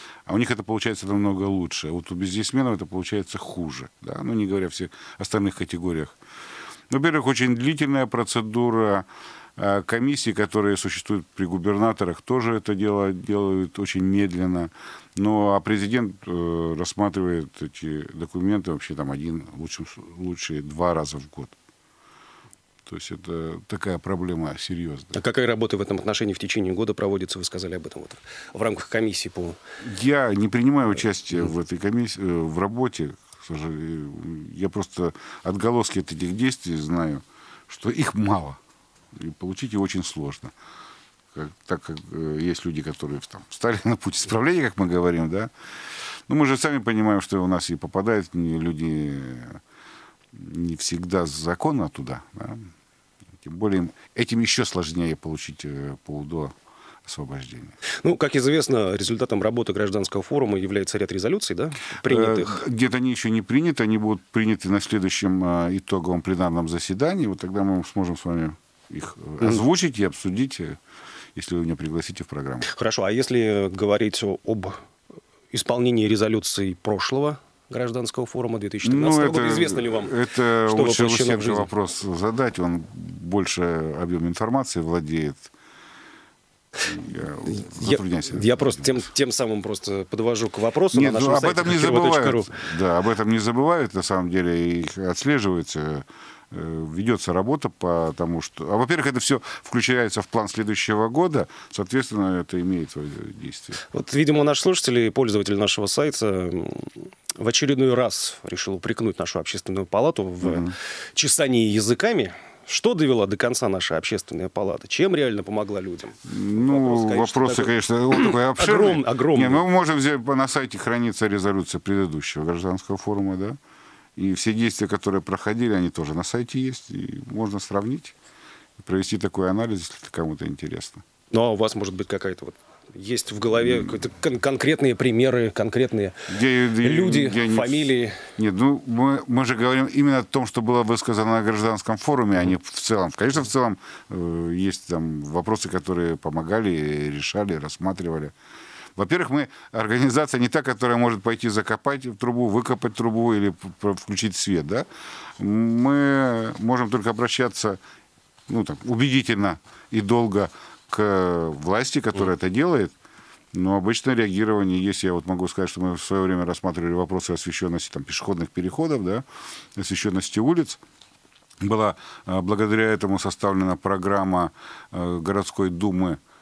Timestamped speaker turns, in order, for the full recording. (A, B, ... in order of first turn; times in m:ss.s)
0:00.3-0:06.2 A
0:06.9-0:21.6 A
0:22.9-0:25.2 A
0:25.1-0:29.6 B
0:29.8-0:38.6 A
0:39.1-0:40.5 A
0:41.3-0:45.5 A
0:46.3-0:49.6 A
0:50.3-0:52.7 A
0:53.4-0:57.8 A
0:58.0-1:02.6 B
1:02.0-1:10.8 A
1:11.4-1:12.7 A
1:12.7-1:14.8 B
1:15.5-1:21.7 B
1:18.8-1:25.5 A
1:26.8-1:29.0 A
1:27.4-1:32.6 B
1:30.9-1:43.8 A
1:43.9-1:59.6 B
1:50.4-1:50.7 A
1:56.2-2:03.6 A
2:04.2-2:08.2 A
2:08.8-2:11.0 A
2:11.3-2:16.3 B
2:16.3-2:28.3 A
2:16.8-2:18.3 B
2:29.0-2:34.9 A
2:35.4-2:37.8 A
2:38.5-2:42.9 A
2:43.5-2:49.2 A
2:49.8-2:50.8 A
2:51.6-2:56.2 A